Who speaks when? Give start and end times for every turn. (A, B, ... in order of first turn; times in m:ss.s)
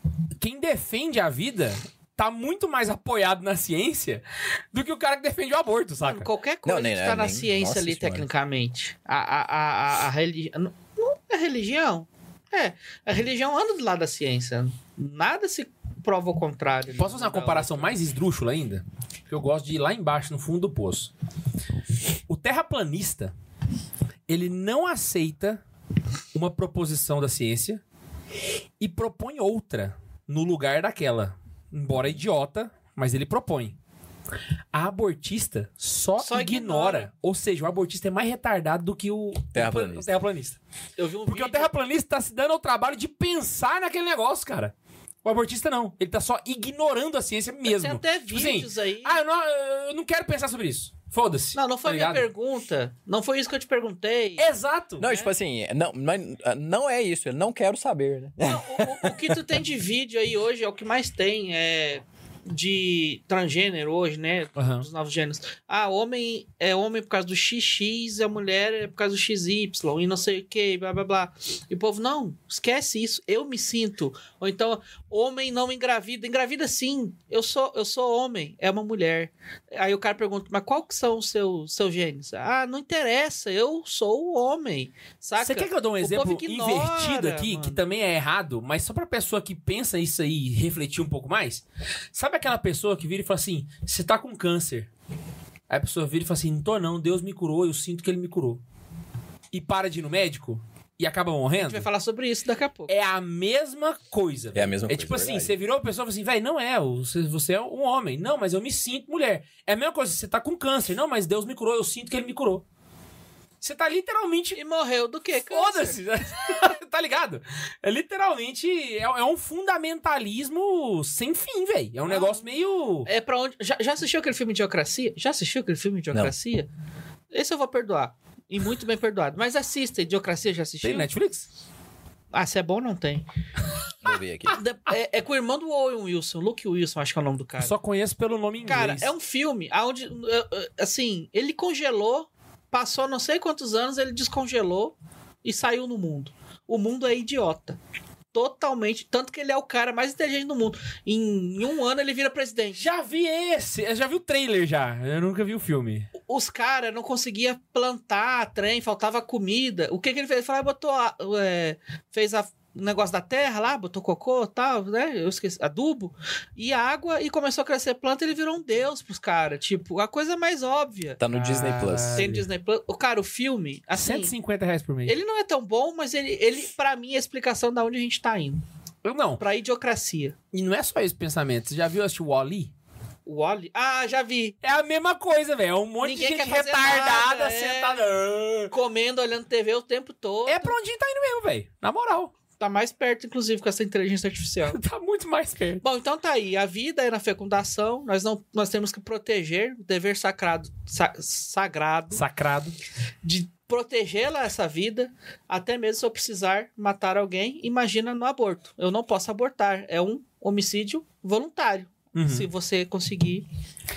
0:00.4-0:06.3 A
0:06.0-0:17.9 B
0:06.6-0:08.3 C
0:17.0-0:21.1 A
0:22.3-0:23.3 A
0:24.3-0:25.6 A
0:26.3-0:27.8 A
0:28.8-0:33.8 A
0:34.7-0:40.6 A
0:36.2-0:37.1 B
0:39.5-0:40.1 C
0:41.0-0:41.7 B
0:41.3-0:44.7 A
0:45.2-0:52.3 A
0:47.6-0:49.2 B
0:51.6-0:54.5 B
0:54.4-0:55.1 A
0:55.0-0:59.4 C
0:55.0-0:55.3 B
0:58.4-1:27.8 B
1:04.6-1:04.9 A
1:25.4-1:34.9 A
1:35.7-1:38.6 A
1:39.5-1:41.9 A
1:41.6-1:42.9 B
1:42.9-1:52.6 A
1:44.5-1:45.6 C
1:53.6-1:54.6 A
1:54.6-1:56.0 B
1:55.5-2:03.1 A
2:02.1-2:02.4 B
2:03.1-2:06.7 B
2:07.3-2:11.1 B
2:10.8-2:11.5 A
2:12.3-2:13.2 B
2:14.0-2:14.6 C
2:14.5-2:17.7 B
2:17.6-2:19.1 A
2:18.6-2:27.8 B
2:28.3-2:32.8 B
2:32.8-2:36.1 A
2:36.3-2:51.2 B
2:51.2-2:52.3 C
2:51.3-2:52.4 A
2:52.2-2:54.3 B
2:54.0-2:55.2 A
2:55.1-2:58.6 B
2:59.0-2:59.4 A
2:59.4-3:00.4 B
3:00.5-3:02.7 A
3:03.3-3:04.6 B
3:04.6-3:08.7 A
3:06.0-3:08.0 B
3:08.7-3:10.8 B
3:10.5-3:12.3 A
3:12.6-3:14.8 B
3:14.7-3:15.8 A
3:15.8-3:22.2 B
3:22.1-3:22.8 A
3:23.2-3:33.5 B
3:32.2-3:32.5 A